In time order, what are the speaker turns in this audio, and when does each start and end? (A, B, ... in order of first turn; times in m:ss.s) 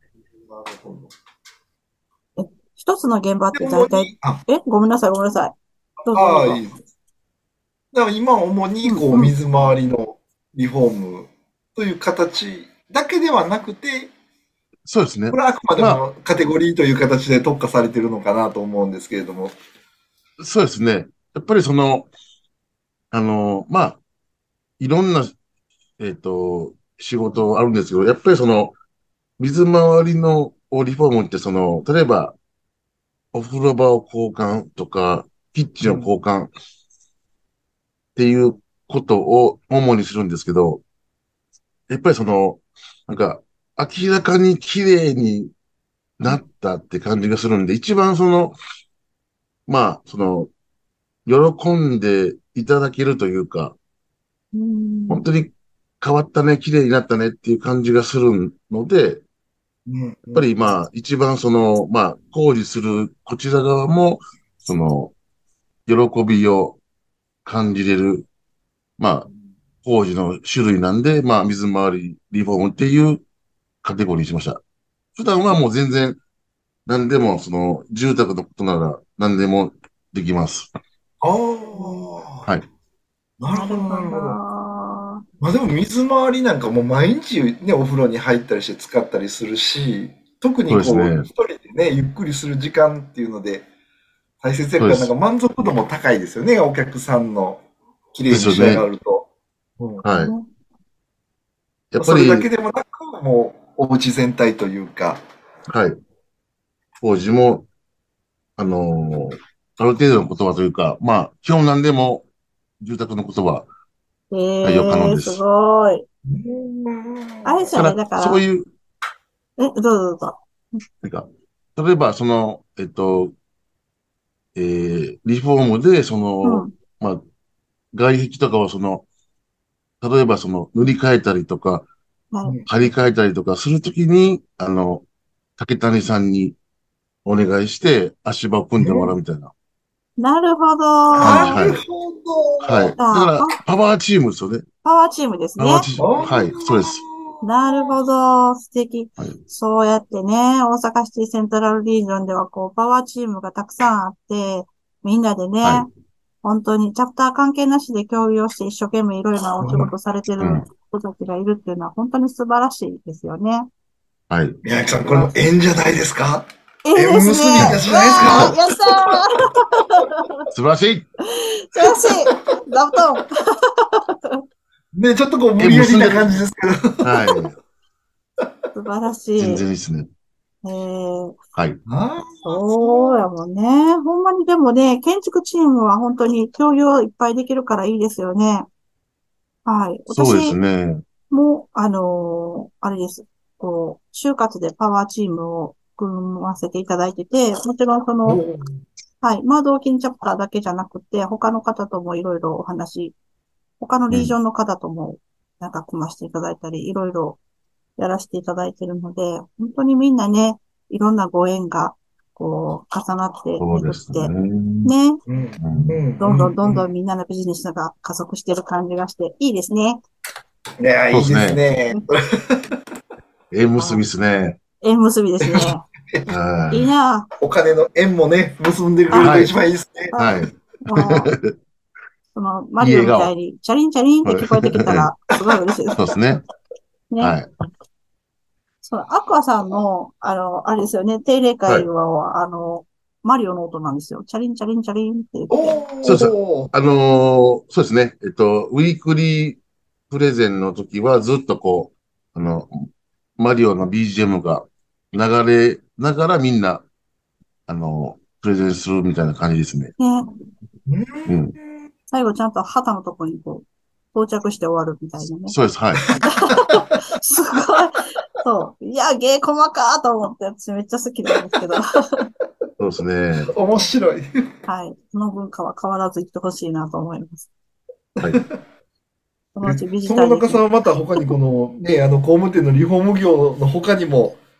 0:00.4-0:01.1 A
0:02.4-0:05.5 B
0:03.5-0:04.4 A
0:06.0-0:06.8 A
0:06.1-0:06.6 B
0:07.9-0:14.1 A
0:08.8-0:09.3 B
0:14.9-0:16.0 C
0:15.3-0:19.5 A
0:20.4-0:22.1 C
0:23.1-0:24.0 C
0:24.8-0:25.4 C
0:26.0-0:28.8 C
0:29.4-0:32.4 C
0:33.3-0:36.5 C
0:35.8-0:36.1 A
0:38.2-0:40.8 C
0:41.9-0:45.5 C
0:46.2-0:48.6 C
0:49.7-0:50.5 C
0:51.2-0:53.8 C
0:54.5-0:55.2 B
0:55.1-0:59.2 C
0:59.9-1:00.5 A
1:00.3-1:05.1 C
1:05.9-1:06.8 C
1:07.4-1:08.3 C
1:09.0-1:09.3 C
1:09.8-1:13.2 C
1:13.8-1:14.6 C
1:15.2-1:16.2 C
1:16.9-1:20.7 C
1:21.2-1:22.5 A
1:21.8-1:22.0 B
1:23.4-1:24.4 A
1:23.5-1:25.2 B
1:25.4-1:33.7 A
1:30.7-1:31.2 C
1:34.4-1:37.6 A
1:34.8-1:35.1 C
1:38.1-1:39.3 A
1:38.3-1:38.8 C
1:40.0-1:40.3 C
1:40.1-1:40.5 B
1:41.9-1:42.5 C
1:42.0-1:45.2 A
1:45.7-1:46.0 C
1:47.0-1:47.6 C
1:48.6-1:52.2 C
1:52.8-1:53.7 C
1:54.3-1:56.0 B
1:54.6-1:55.4 C
1:56.3-1:57.8 A
1:57.4-1:58.4 B
1:57.8-1:58.7 C
1:59.6-2:00.8 B
2:01.0-2:03.3 C
2:04.6-2:07.2 C
2:06.4-2:06.7 B
2:07.9-2:09.0 C
2:10.0-2:11.9 C
2:12.3-2:12.6 B
2:12.6-2:15.0 C
2:15.6-2:16.6 C
2:17.2-2:19.5 C
2:18.8-2:19.1 A
2:20.2-2:21.6 B
2:21.1-2:23.0 A
2:21.2-2:21.8 C
2:22.6-2:24.6 C
2:23.0-2:23.6 B
2:24.8-2:25.9 B
2:25.6-2:27.0 C
2:26.0-2:27.9 A
2:27.4-2:35.9 B
2:36.4-2:43.7 B
2:39.6-2:39.9 A
2:40.4-2:40.6 C
2:44.3-2:44.6 C
2:44.6-2:49.1 A
2:46.8-2:50.4 B
2:47.6-2:48.6 C
2:50.5-2:51.1 C
2:51.3-2:54.4 B
2:51.8-2:52.4 A
2:54.9-2:57.3 A
2:55.6-2:56.2 C
2:57.0-2:57.5 C
2:58.7-2:59.6 B
2:59.4-3:00.1 C
3:00.6-3:01.4 B
3:01.5-3:01.8 C
3:01.9-3:03.2 A
3:02.4-3:08.7 B
3:09.6-3:10.6 B
3:10.1-3:11.0 C
3:11.3-3:18.4 B
3:18.2-3:18.8 A
3:19.2-3:23.1 B
3:23.8-3:27.4 B
3:28.0-3:34.3 B
3:33.6-3:34.9 C
3:34.8-3:35.2 B
3:35.3-3:36.8 A
3:35.6-3:36.0 C
3:36.2-3:40.0 B
3:40.8-3:42.7 A
3:41.1-3:41.6 C
3:43.5-3:44.6 C
3:43.8-3:44.0 B
3:44.8-3:45.8 B
3:45.4-3:46.2 A
3:46.3-3:46.9 C
3:46.7-3:47.3 B
3:47.4-3:50.1 A
3:49.1-3:49.4 B
3:49.2-3:49.5 C
3:50.1-3:51.3 B
3:50.2-3:51.5 C
3:52.4-3:56.0 B
3:52.8-3:53.3 C
3:54.2-3:55.1 C
3:56.0-3:56.4 C
3:57.1-3:57.4 B
3:57.2-3:57.5 C
3:58.8-4:05.8 B
4:05.5-4:06.7 A
4:06.0-4:12.9 C
4:13.4-4:16.8 C
4:17.7-4:19.9 C
4:20.0-4:20.2 B
4:20.9-4:21.4 A
4:21.3-4:21.5 C
4:22.1-4:25.5 B
4:25.5-4:26.1 C
4:26.2-4:32.2 B
4:32.8-4:33.5 C
4:33.5-4:34.5 A
4:34.7-4:37.5 B
4:38.2-4:38.6 A
4:39.5-4:40.6 B
4:39.6-4:44.4 A